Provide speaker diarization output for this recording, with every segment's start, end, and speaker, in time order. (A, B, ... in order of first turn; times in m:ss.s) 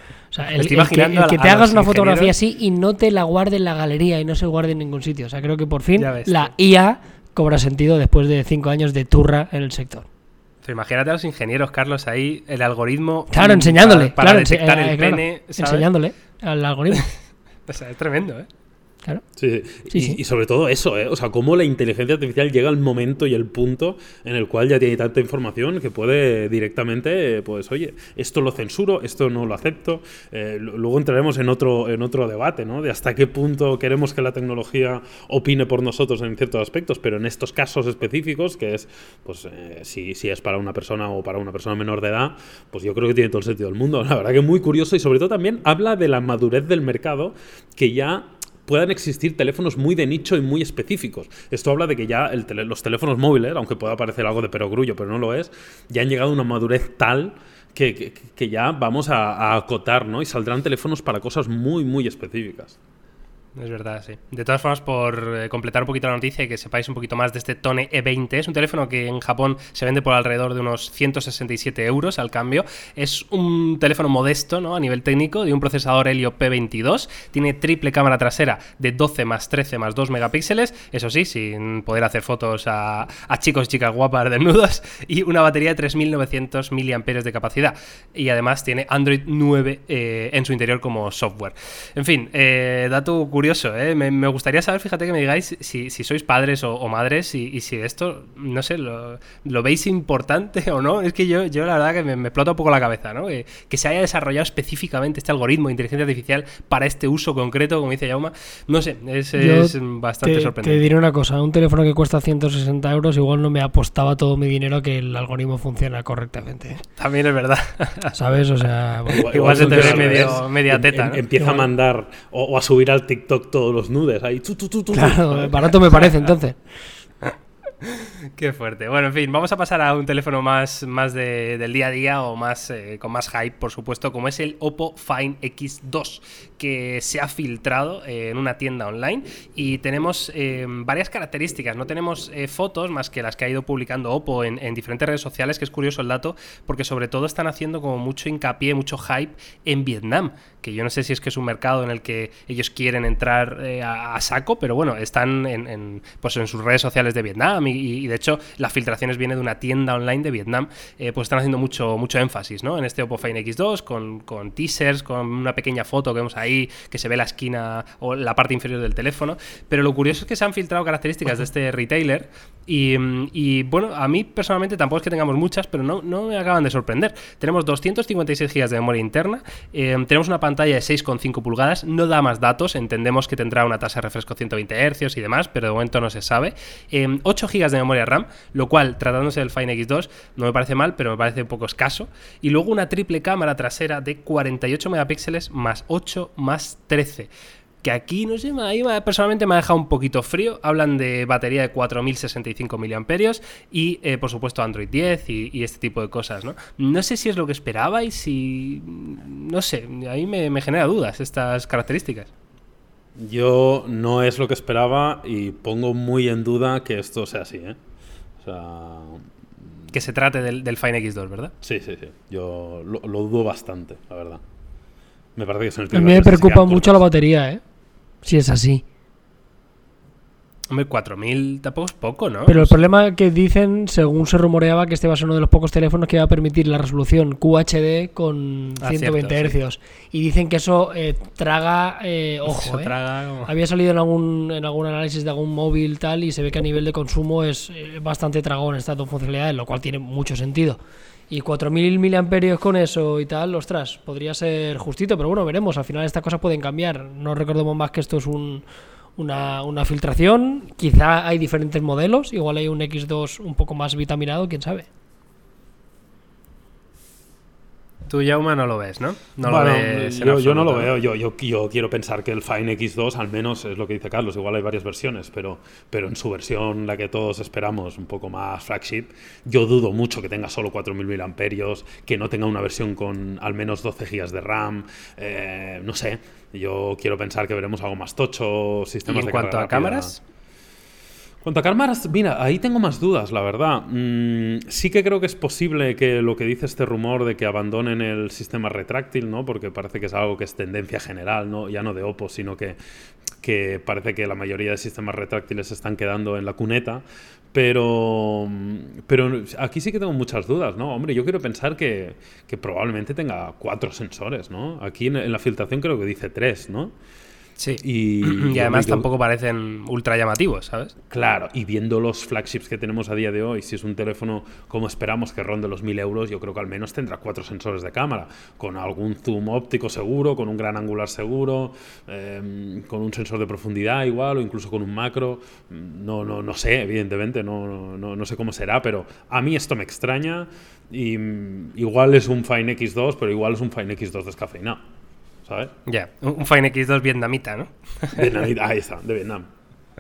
0:00.3-0:10.1 A
0:00.6-0:02.3 B
0:06.0-0:06.5 B
0:10.6-0:15.9 B
0:13.3-0:17.1 A
0:17.7-0:18.5 B
0:19.4-1:02.8 C
0:19.9-0:20.2 A
1:03.6-1:50.9 B
1:49.4-1:56.8 A
1:57.0-1:58.2 B
1:58.1-2:00.3 A
1:59.1-2:06.0 C
1:59.2-2:01.2 B
2:01.4-2:01.7 A
2:04.9-2:06.6 A
2:07.8-3:17.3 B
3:17.8-3:32.3 B
3:33.2-3:37.8 C
3:38.4-3:39.8 C
3:39.9-3:41.5 B
3:41.6-3:44.4 C
3:45.4-3:47.0 C
3:45.9-3:47.6 A
3:48.2-3:48.8 A
3:50.7-3:52.8 B
3:52.5-4:02.9 A
3:58.8-3:59.5 B
4:02.5-4:03.5 B
4:03.5-4:18.6 A
4:19.2-4:24.9 A
4:28.1-4:30.9 B
4:29.4-4:50.1 C
4:49.1-4:50.2 B
4:51.4-5:02.8 C
5:03.4-5:16.9 C
5:17.6-5:20.9 B
5:17.8-5:19.1 C
5:21.1-5:44.8 C
5:45.5-5:45.7 C
5:45.9-5:48.4 B
5:48.1-5:49.5 C